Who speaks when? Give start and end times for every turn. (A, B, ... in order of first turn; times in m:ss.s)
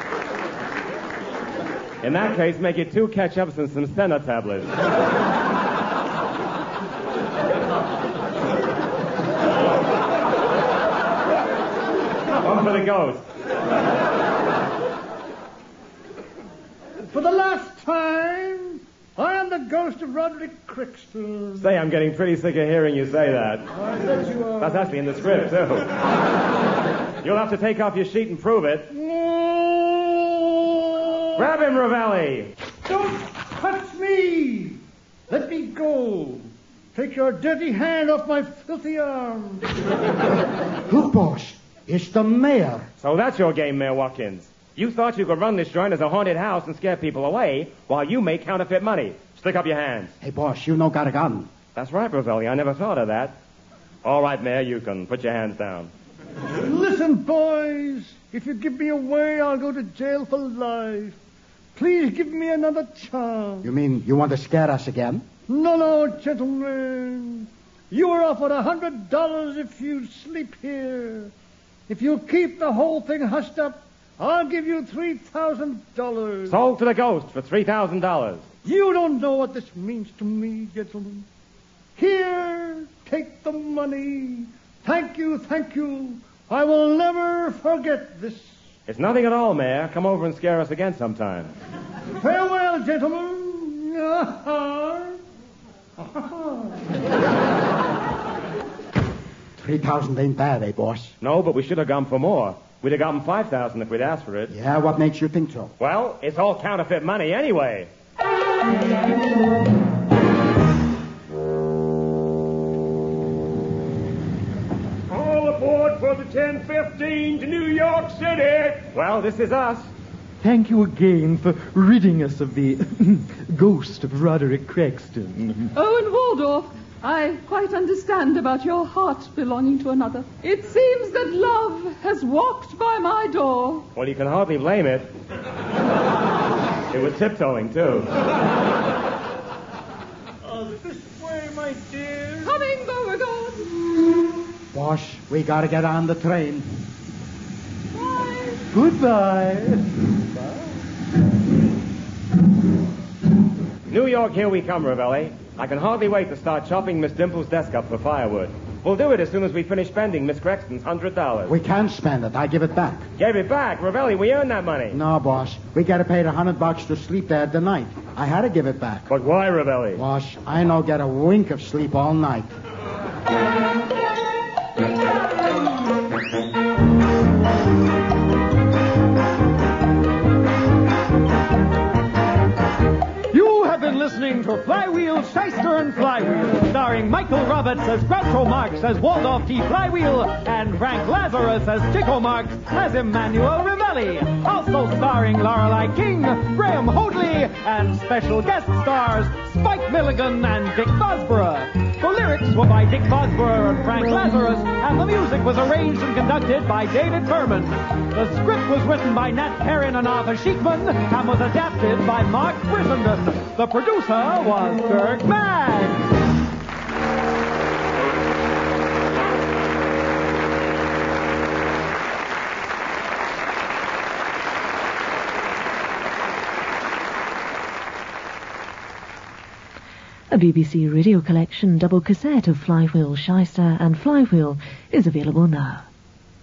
0:02.0-0:04.7 A
0:12.4-0:13.2 A
0:17.1-0:21.7 B
0:21.6-0:23.7 A
0:23.7-0:25.0 B
0:24.6-0:25.9 A
0:27.2-0:28.9 A
0:28.9-0:31.4 B
0:31.4-0:32.5 A
0:32.8-0:39.7 B
0:40.9-0:42.9 C
0:43.0-0:50.1 A
0:50.2-0:51.5 C
0:51.7-0:53.3 A
0:54.0-0:55.9 A
0:56.6-1:01.2 B
1:01.7-1:03.7 B
1:03.6-1:05.2 C
1:05.5-1:11.3 B
1:11.9-1:16.6 B
1:16.5-1:18.4 A
1:18.6-1:21.3 B
1:22.0-1:28.6 B
1:28.9-1:31.5 A
1:32.2-1:35.2 B
1:36.0-1:36.7 B
1:39.6-1:41.1 C
1:41.2-1:44.5 A
1:44.5-1:45.7 C
1:45.8-1:47.9 A
1:55.3-1:56.0 D
1:56.7-1:58.6 D
1:58.8-1:59.9 A
2:00.4-2:05.7 E
2:05.7-2:13.9 F
2:13.9-2:15.1 A
2:16.9-2:18.1 A
2:20.4-2:22.6 B
2:22.4-2:23.7 F
2:24.7-2:26.7 C
2:28.7-2:29.9 E
2:30.3-2:30.7 B
2:33.9-2:41.5 A
2:41.5-2:43.1 C
2:43.2-2:45.0 A
2:44.9-2:49.1 C
2:49.1-2:50.0 A
2:49.9-2:52.5 C
3:03.3-3:36.1 G
3:50.3-3:55.9 H